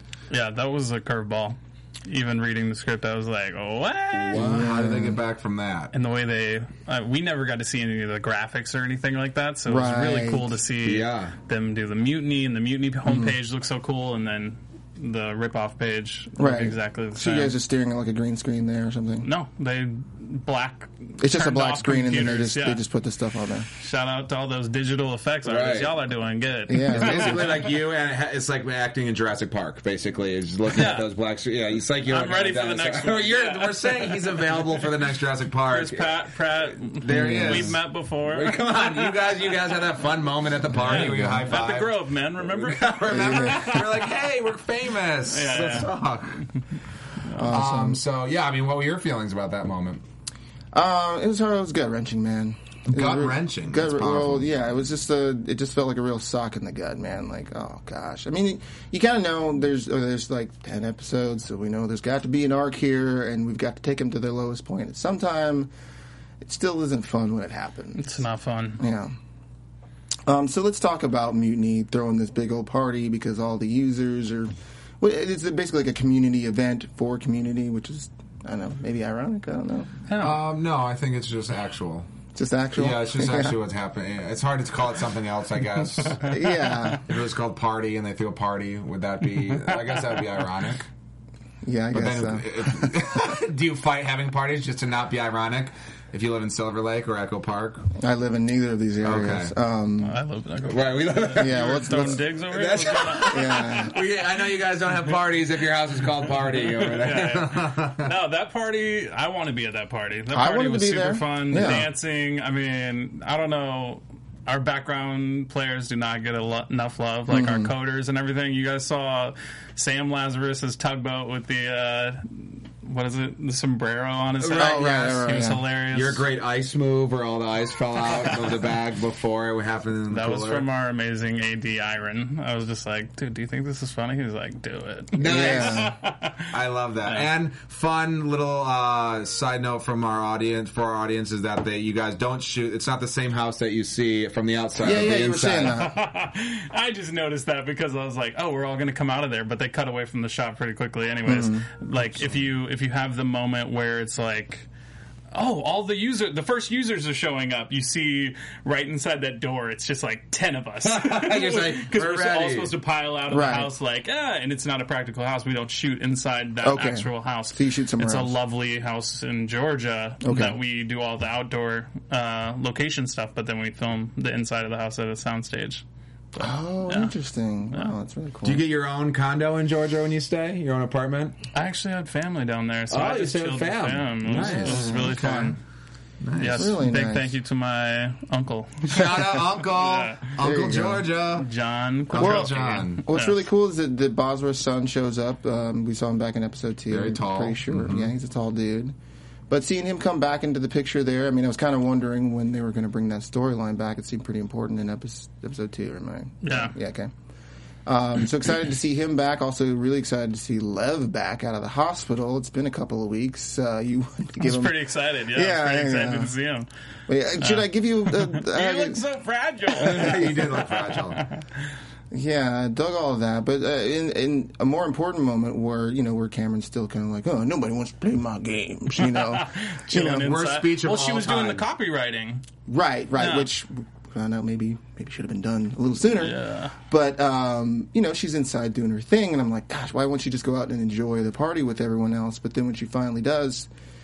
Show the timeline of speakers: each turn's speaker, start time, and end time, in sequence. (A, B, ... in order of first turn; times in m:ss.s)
0:00.3-0:04.6 A
0:04.1-0:05.9 B
0:04.3-0:05.2 C
0:05.9-0:17.5 A
0:09.6-0:10.5 C
0:10.8-0:11.3 B
0:13.0-0:13.3 C
0:16.4-0:19.3 C
0:19.2-0:22.8 A
0:21.2-0:23.7 C
0:23.8-0:27.7 A
0:25.4-0:25.9 B
0:26.7-0:27.5 C
0:26.8-0:46.4 B
0:30.7-0:31.1 A
0:32.1-0:34.3 A
0:35.7-0:38.6 A
0:37.1-0:37.8 C
0:40.8-0:44.1 A
0:40.8-0:41.4 C
0:43.1-0:43.8 C
0:45.2-0:45.9 A
0:47.4-0:48.0 C
0:47.4-0:50.0 B
0:50.7-1:05.7 C
0:52.9-0:54.5 B
1:06.4-1:08.1 C
1:07.9-1:08.8 A
1:08.8-1:09.1 C
1:10.2-1:19.9 C
1:20.1-1:20.4 A
1:20.2-1:22.1 B
1:22.3-1:23.6 C
1:22.8-1:26.2 B
1:26.2-1:27.0 A
1:26.2-1:27.0 C
1:27.0-1:30.9 B
1:31.6-1:33.0 C
1:31.9-1:37.8 B
1:38.0-1:40.2 C
1:39.0-1:39.5 B
1:40.0-1:43.9 A
1:40.7-1:48.1 B
1:41.4-1:42.2 C
1:43.2-1:44.0 C
1:46.7-2:06.2 A
1:50.3-1:51.9 C
1:51.6-1:51.8 B
1:57.3-1:57.7 C
2:04.4-2:05.1 B
2:04.5-2:05.6 C
2:05.9-2:10.6 B
2:10.1-2:16.5 A
2:15.1-2:15.9 B
2:15.2-2:15.9 C
2:16.5-2:25.8 B
2:24.8-2:26.0 C
2:25.6-2:34.7 A
2:31.2-2:31.7 C
2:35.3-2:55.8 A
2:40.8-2:42.7 B
2:43.3-2:43.7 C
2:46.6-2:48.3 C
2:50.2-2:50.6 C
2:56.3-2:57.1 A
2:56.4-2:58.6 C
2:58.4-3:01.4 B
3:01.5-3:05.6 A
3:02.9-3:05.6 B
3:04.4-3:05.2 C
3:06.2-3:06.7 B
3:06.3-3:10.3 A
3:06.5-3:07.3 C
3:08.8-3:11.5 B
3:10.4-3:11.1 C
3:11.3-3:13.4 A
3:12.1-3:13.0 B
3:12.2-3:18.9 C
3:16.9-3:18.1 B
3:19.5-3:27.1 C
3:26.4-3:26.7 A
3:27.8-3:36.3 C
3:34.4-3:36.7 A
3:37.1-3:39.0 C
3:37.4-3:41.4 A
3:39.7-3:41.2 B
3:40.0-3:40.3 C
3:42.1-3:50.3 C
3:49.0-3:52.4 A
3:50.1-3:51.6 B
3:52.7-3:56.4 C
3:53.2-3:53.5 A
3:56.1-3:56.7 A
3:56.9-4:03.7 C